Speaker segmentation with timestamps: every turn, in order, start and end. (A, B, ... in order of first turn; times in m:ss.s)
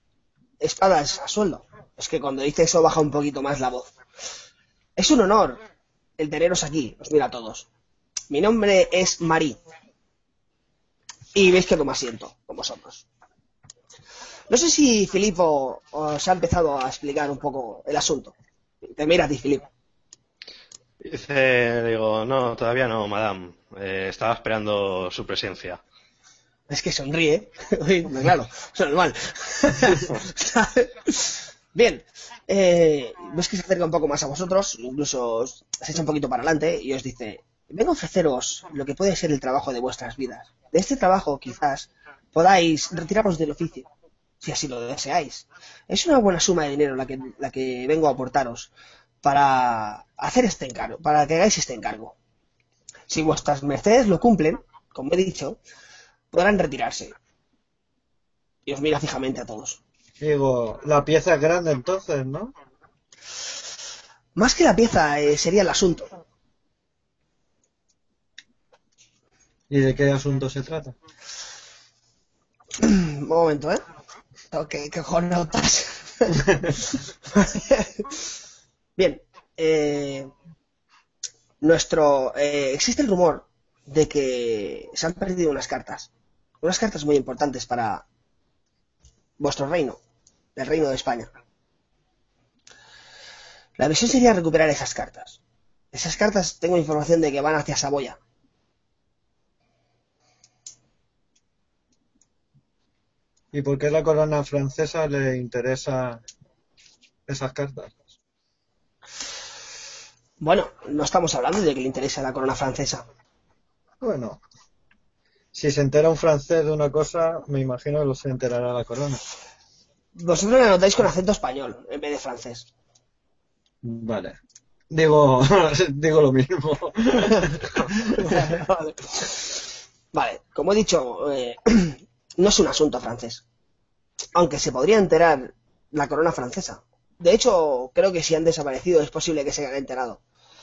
0:00.6-0:03.9 A
0:05.0-0:05.6 A
0:06.2-0:07.7 A
0:08.3-0:09.6 A
0:11.4-0:13.1 A
0:14.5-0:18.4 A
0:18.9-0:19.7 A
0:21.0-0:25.8 B
0:26.7-0:43.9 A
0:44.4-0:48.7 A
0:49.2-0:52.2 A
0:53.1-0:55.6 A
0:56.3-0:57.1 A
0:58.7-0:59.8 A
1:00.2-1:02.5 C
1:04.4-1:06.1 A
1:09.7-1:11.0 C
1:12.8-1:13.8 A
1:14.5-1:16.4 A
1:17.3-1:18.2 A
1:19.0-1:20.3 A
1:21.6-1:26.1 A
1:26.6-1:28.0 A
1:29.4-1:30.0 A
1:30.6-1:31.3 A
1:33.8-1:35.4 A
1:35.9-1:38.2 A
1:43.5-1:46.2 C
1:47.3-1:48.0 C
1:50.4-1:53.1 A
1:54.0-1:54.4 C
1:55.5-1:59.2 C
2:00.2-2:02.7 A
2:03.8-2:04.4 C
2:04.9-2:08.4 C
2:08.2-2:09.6 A
2:10.1-2:13.4 A
2:14.4-2:20.2 A